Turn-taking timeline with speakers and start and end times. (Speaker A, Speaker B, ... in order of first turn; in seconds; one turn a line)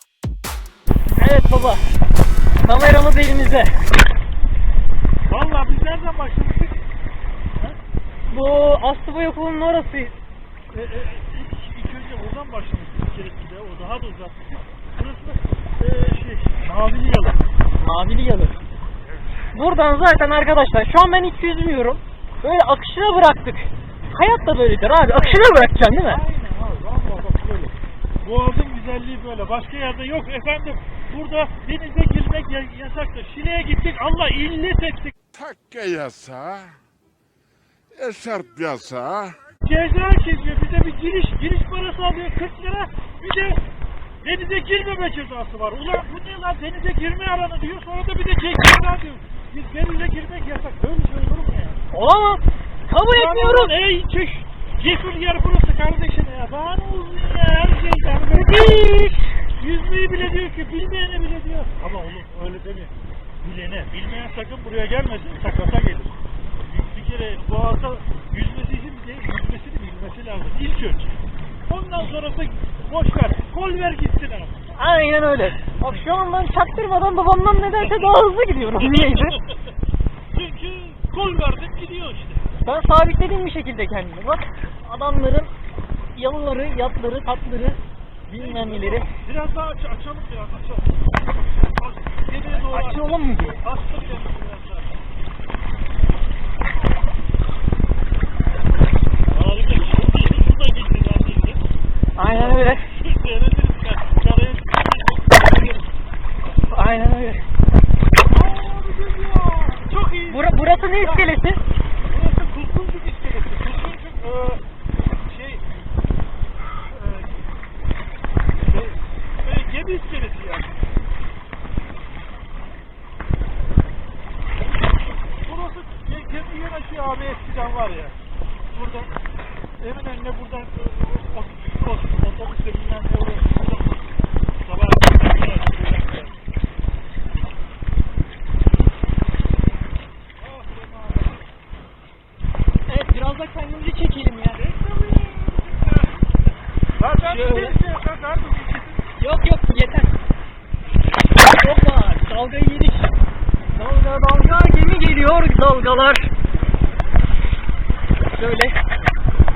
Speaker A: 1.2-1.8
Speaker A: 2.6-3.7
Speaker B: 5.3-6.8
Speaker A: 8.3-10.2
Speaker B: 10.7-17.4
Speaker A: 17.8-18.6
Speaker A: 19.5-26.2
Speaker B: 25.1-35.1
Speaker C: 35.3-36.8
Speaker C: 37.9-39.4
Speaker B: 39.6-43.6
Speaker B: 44.2-51.8
Speaker A: 51.9-53.8
Speaker B: 53.1-58.9
Speaker A: 58.3-59.4
Speaker B: 59.6-71.2
Speaker B: 71.7-74.6
Speaker A: 74.8-79.4
Speaker B: 78.8-79.6
Speaker B: 80.3-82.5
Speaker A: 82.7-85.5
Speaker A: 86.2-89.1
Speaker B: 88.3-91.0
Speaker B: 91.8-95.0
Speaker A: 92.5-93.6
Speaker B: 99.3-101.6
Speaker A: 102.2-102.8
Speaker B: 102.2-106.0
Speaker A: 106.7-107.4
Speaker B: 108.3-111.3
Speaker A: 110.3-111.6
Speaker B: 112.0-114.6
Speaker B: 115.3-115.6
Speaker B: 116.9-117.4
Speaker B: 118.6-120.8
Speaker B: 125.4-128.2
Speaker B: 128.7-129.1
Speaker B: 129.8-134.1
Speaker B: 134.6-136.4
Speaker B: 140.4-141.5
Speaker A: 142.9-144.6
Speaker B: 144.6-146.4
Speaker B: 147.0-149.1
Speaker A: 147.2-147.8
Speaker A: 149.2-150.1
Speaker A: 151.5-153.1
Speaker A: 153.7-156.3
Speaker A: 158.3-158.8